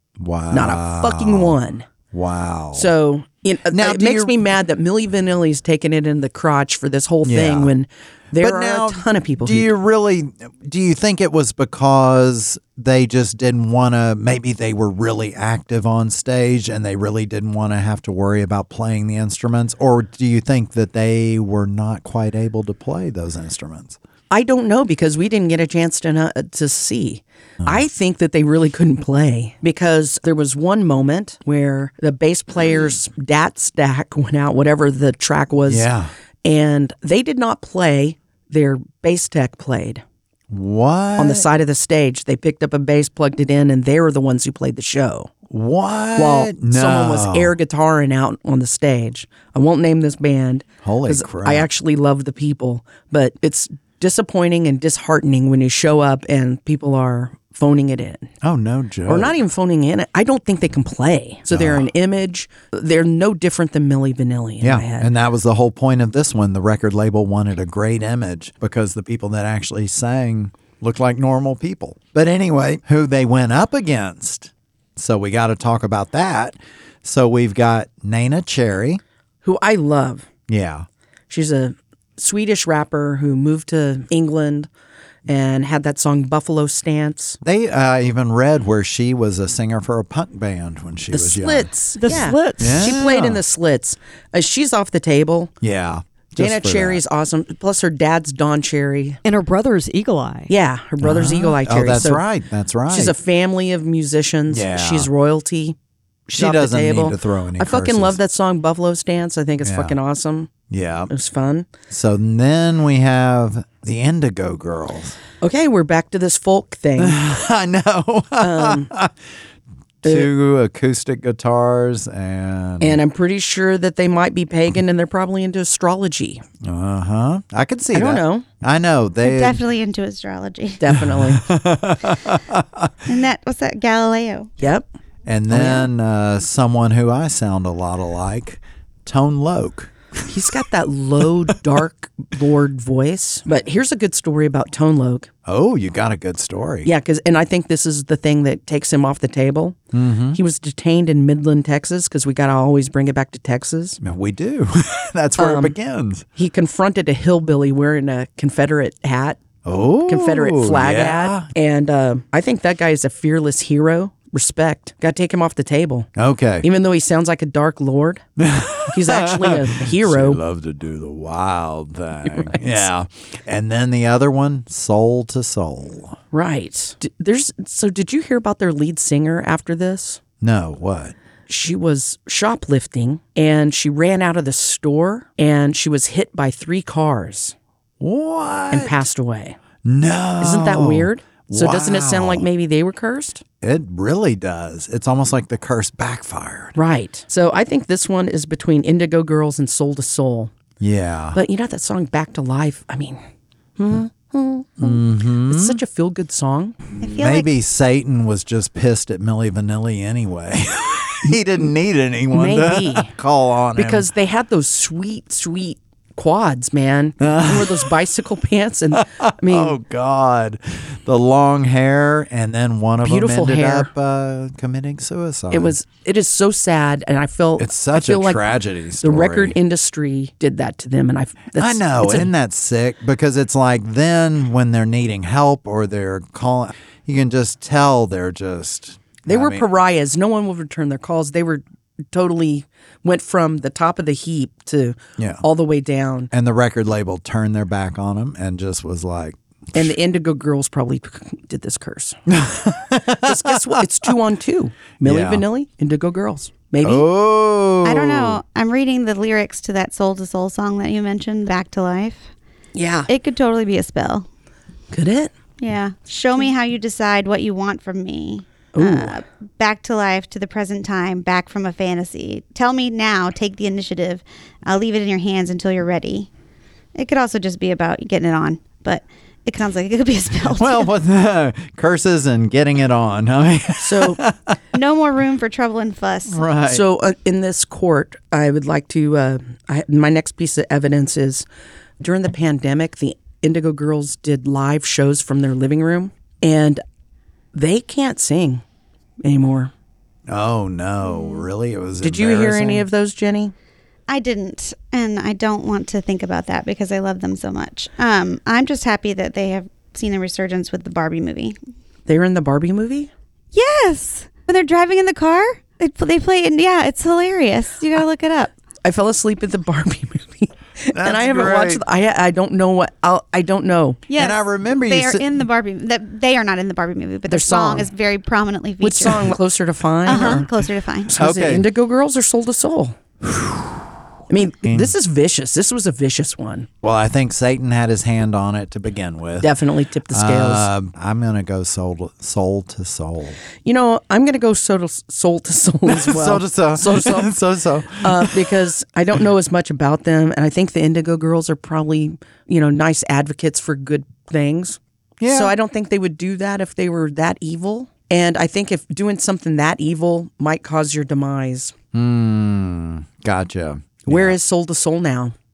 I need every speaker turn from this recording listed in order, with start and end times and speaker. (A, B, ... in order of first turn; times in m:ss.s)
0:00.2-0:01.6 A
0:00.5-0:01.9 B
0:02.1-0:02.9 A
0:02.7-0:09.7 B
0:03.7-0:04.3 A
0:07.2-0:07.7 A
0:08.4-0:24.0 A
0:24.3-0:35.9 B
0:35.7-0:36.1 A
0:36.4-0:40.0 B
0:40.5-0:41.4 A
0:41.2-0:45.3 B
0:45.5-0:47.5 A
0:46.2-0:58.3 B
0:50.8-0:51.7 A
0:58.4-0:59.3 A
0:59.1-1:05.1 B
1:01.5-1:01.9 A
1:04.6-1:19.0 A
1:19.4-1:20.3 B
1:20.5-1:20.8 A
1:21.3-1:24.7 B
1:25.3-1:27.4 B
1:27.4-1:31.7 A
1:31.1-1:35.5 B
1:32.0-1:32.8 C
1:32.6-1:33.4 A
1:35.6-1:37.0 A
1:36.4-1:39.2 B
1:39.2-1:40.5 C
1:40.5-1:42.2 B
1:41.0-1:43.1 A
1:42.9-1:45.8 B
1:44.5-1:45.1 A
1:46.3-1:50.5 B
1:46.3-1:48.2 A
1:49.6-1:50.0 A
1:50.7-1:51.1 A
1:51.1-1:51.7 B
1:51.9-1:55.2 A
1:55.4-1:57.2 B
1:57.0-1:59.1 A
1:58.4-1:58.9 B
2:00.0-2:03.0 A
2:00.0-2:00.3 B
2:02.8-2:06.4 B
2:06.6-2:09.6 A
2:07.9-2:08.4 B
2:09.2-2:10.8 D
2:10.8-2:11.5 B
2:10.9-2:12.9 A
2:13.1-2:14.5 D
2:14.6-2:14.9 B
2:15.2-2:20.3 A
2:15.5-2:15.9 B
2:20.3-2:25.3 B
2:25.4-2:26.9 A
2:26.8-2:29.8 B
2:29.9-2:30.4 A
2:30.3-2:34.0 B
2:34.0-2:36.2 A
2:35.4-2:35.8 B
2:36.4-2:39.4 B
2:39.6-2:41.5 A
2:40.1-2:46.1 B
2:46.2-2:46.7 A
2:46.6-2:48.2 B
2:48.4-2:56.2 A
2:48.9-2:50.4 B
2:52.3-2:52.8 B
2:56.3-3:00.2 B
3:00.4-3:01.1 A
3:01.5-3:07.5 B
3:08.0-3:09.0 A
3:08.7-3:09.6 B
3:09.8-3:12.4 A
3:10.4-3:13.4 B
3:13.6-3:16.7 A
3:16.7-3:20.5 B
3:20.8-3:21.4 A
3:21.3-3:23.2 B
3:23.8-3:26.8 B
3:24.8-3:25.8 A
3:27.0-3:27.5 D
3:27.2-3:34.1 A
3:32.3-3:33.1 B
3:33.8-3:39.8 B
3:37.2-3:37.9 A
3:38.9-3:45.7 A
3:43.0-3:43.9 B
3:45.5-3:48.4 B
3:47.6-3:49.6 A
3:49.0-3:52.3 B
3:51.5-3:59.6 A
3:59.2-4:06.3 B
4:05.2-4:05.4 A
4:06.3-4:09.9 A
4:09.7-4:12.2 B
4:12.3-4:13.8 A
4:13.1-4:17.0 B
4:15.0-4:15.4 A
4:16.8-4:18.4 A
4:17.8-4:22.3 D
4:22.7-4:23.1 B
4:23.1-4:24.2 D
4:24.9-4:25.3 B
4:25.6-4:36.3 D
4:28.7-4:29.2 B
4:36.9-4:40.9 D
4:40.5-4:44.5 A
4:43.8-4:44.2 B
4:44.7-4:46.4 D
4:46.3-4:46.8 A
4:46.7-4:51.4 B
4:52.0-4:56.8 B
4:57.5-4:58.6 B
4:59.2-4:59.7 B
5:00.3-5:02.8 A
5:01.1-5:01.4 D
5:02.0-5:03.5 B
5:04.1-5:11.6 D
5:12.1-5:13.1 B
5:13.5-5:18.5 D
5:18.8-5:24.0 B
5:20.9-5:21.8 A
5:24.1-5:29.3 D
5:24.1-5:25.3 A
5:27.3-5:27.9 B
5:28.8-5:30.5 B
5:30.0-5:31.1 D
5:31.1-5:33.0 B
5:31.1-5:31.6 A
5:33.2-5:33.8 A
5:34.3-5:36.7 B
5:34.6-5:34.9 A
5:36.8-5:39.5 A
5:39.4-5:40.7 B
5:40.1-5:43.4 A
5:43.6-5:47.3 B
5:45.9-5:48.6 A
5:48.0-6:01.7 B
5:55.2-5:55.5 A
6:01.9-6:04.4 A
6:04.1-6:05.3 B